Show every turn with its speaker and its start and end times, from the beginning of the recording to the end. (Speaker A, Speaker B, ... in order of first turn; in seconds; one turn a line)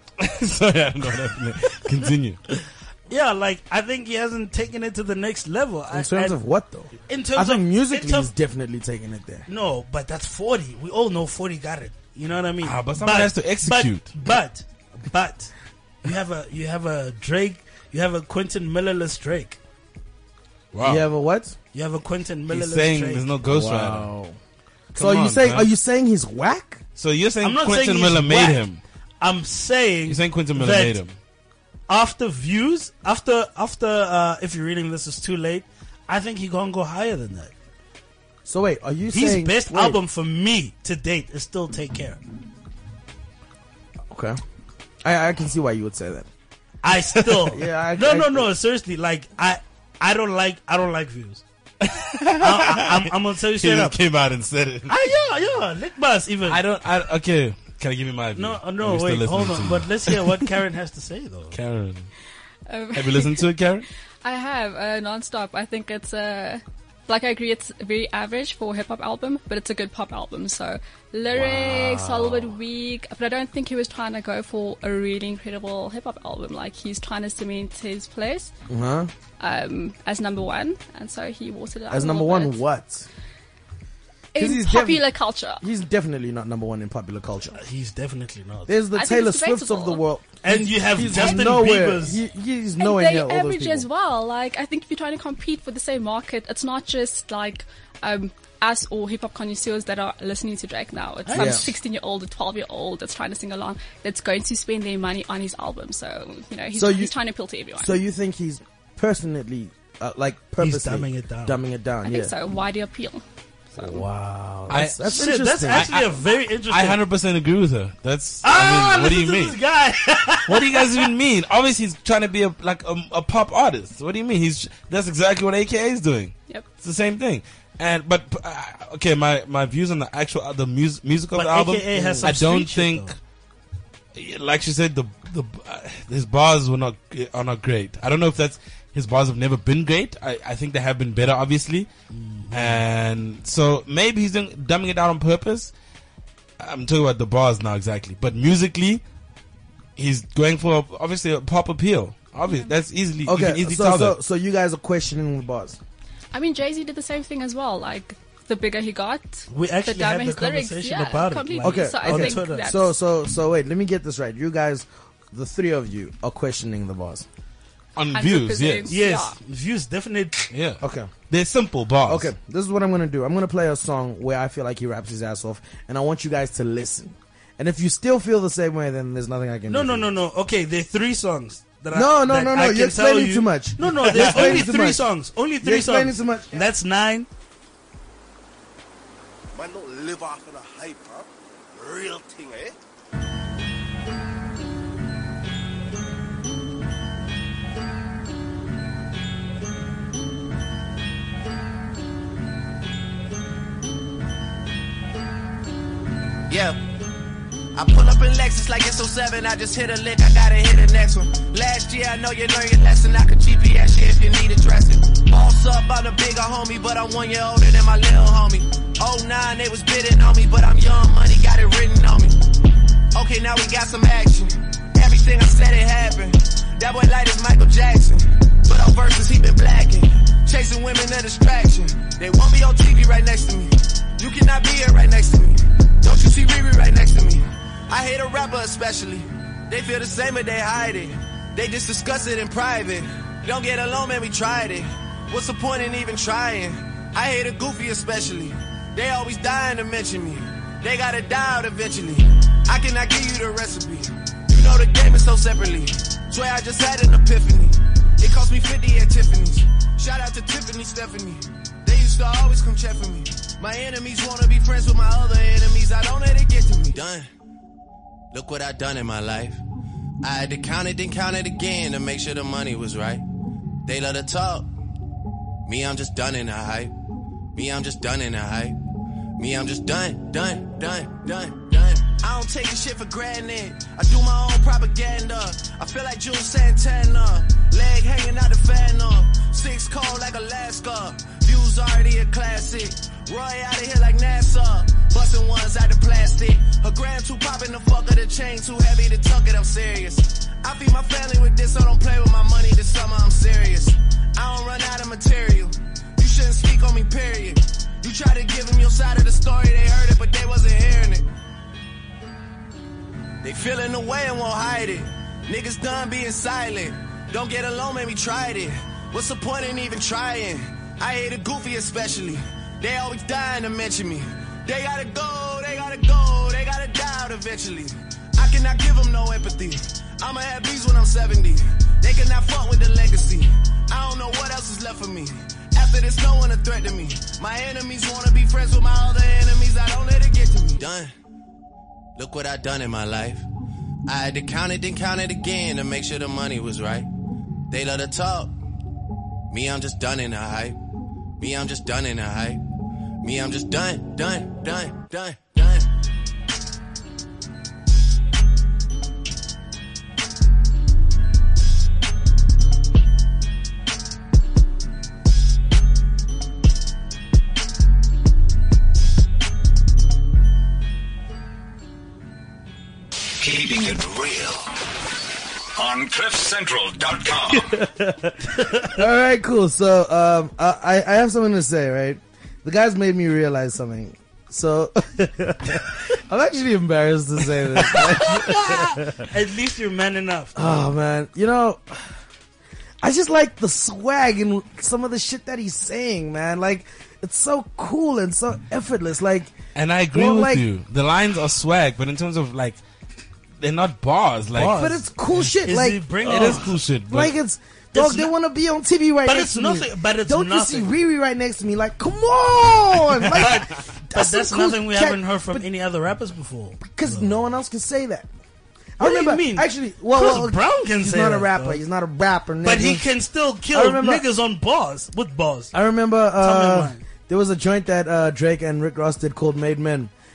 Speaker A: 0.2-2.4
Speaker B: 3.1-6.3
Speaker C: 5.9-9.5
Speaker B: 7.1-8.3
Speaker B: 9.5-15.5
Speaker A: 12.6-14.1
Speaker B: 16.0-19.6
Speaker A: 20.7-21.1
Speaker C: 20.8-21.6
Speaker B: 21.7-23.2
Speaker A: 22.5-24.1
Speaker C: 23.4-24.4
Speaker A: 24.9-25.7
Speaker C: 24.9-26.8
Speaker A: 26.9-28.8
Speaker B: 27.4-28.6
Speaker B: 29.2-31.0
Speaker A: 30.1-31.1
Speaker B: 31.9-37.5
Speaker C: 38.4-40.0
Speaker B: 39.1-42.2
Speaker C: 44.1-44.4
Speaker C: 45.0-46.3
Speaker B: 46.8-51.4
Speaker C: 47.5-48.5
Speaker A: 51.8-54.9
Speaker B: 52.4-54.0
Speaker B: 54.9-56.6
Speaker A: 56.5-60.4
Speaker B: 58.3-61.6
Speaker A: 61.5-62.1
Speaker D: 62.6-63.4
Speaker A: 62.9-63.9
Speaker D: 64.2-78.5
Speaker C: 71.3-72.6
Speaker C: 78.7-79.1
Speaker D: 79.4-82.6
Speaker C: 81.9-83.1
Speaker D: 84.3-85.6
Speaker C: 84.3-85.1
Speaker C: 85.6-87.6
Speaker B: 87.6-88.8
Speaker C: 88.7-93.9
Speaker D: 88.9-90.0
Speaker B: 90.4-92.2
Speaker D: 91.1-91.5
Speaker D: 92.8-108.0
Speaker B: 101.2-101.7
Speaker C: 101.3-101.7
Speaker C: 106.7-107.1
Speaker C: 107.8-112.3
Speaker B: 110.6-111.6
Speaker D: 112.0-114.0
Speaker C: 113.7-115.9
Speaker A: 114.7-119.6
Speaker B: 115.0-117.0
Speaker B: 118.4-121.1
Speaker A: 120.5-133.2
Speaker B: 131.3-133.1
Speaker C: 131.9-132.3
Speaker A: 134.1-141.9
Speaker B: 142.1-142.8
Speaker A: 142.5-145.7
Speaker A: 146.6-149.0
Speaker A: 150.0-154.2
Speaker D: 152.5-152.7
Speaker C: 153.2-155.8
Speaker D: 156.3-162.9
Speaker B: 159.5-162.7
Speaker C: 161.6-167.2
Speaker A: 167.9-168.9
Speaker D: 168.1-169.4
Speaker B: 168.9-170.5
Speaker A: 170.5-172.3
Speaker C: 170.8-171.1
Speaker C: 172.0-180.1
Speaker B: 179.7-187.3
Speaker C: 181.9-185.1
Speaker A: 184.1-184.5
Speaker C: 185.6-186.6
Speaker E: 189.5-192.8
Speaker F: 206.5-206.8
Speaker F: 207.7-222.4
Speaker F: 223.1-267.3
Speaker F: 268.3-269.6
Speaker F: 270.2-273.2
Speaker F: 273.9-274.7
Speaker F: 275.6-276.9
Speaker F: 277.5-278.8
Speaker F: 279.4-311.3
Speaker F: 313.4-341.1
Speaker F: 342.1-343.5
Speaker F: 344.1-347.1
Speaker F: 347.7-348.5
Speaker F: 349.5-350.8
Speaker F: 351.4-352.6
Speaker F: 353.2-355.9
Speaker G: 373.4-374.7
Speaker G: 375.7-377.8
Speaker C: 377.6-389.3
Speaker B: 387.9-390.7
Speaker C: 390.5-392.2
Speaker C: 393.0-399.5
Speaker A: 399.7-402.8
Speaker C: 400.1-400.7
Speaker A: 403.6-405.0
Speaker B: 404.5-405.0
Speaker C: 404.6-415.6
Speaker B: 405.6-406.7
Speaker A: 406.2-407.3
Speaker B: 407.9-408.3
Speaker B: 409.2-410.9
Speaker B: 413.3-417.4
Speaker C: 416.8-418.3
Speaker C: 419.0-423.1
Speaker B: 419.0-421.8
Speaker B: 422.6-425.7
Speaker C: 423.7-424.2
Speaker C: 425.7-430.1
Speaker B: 426.4-427.0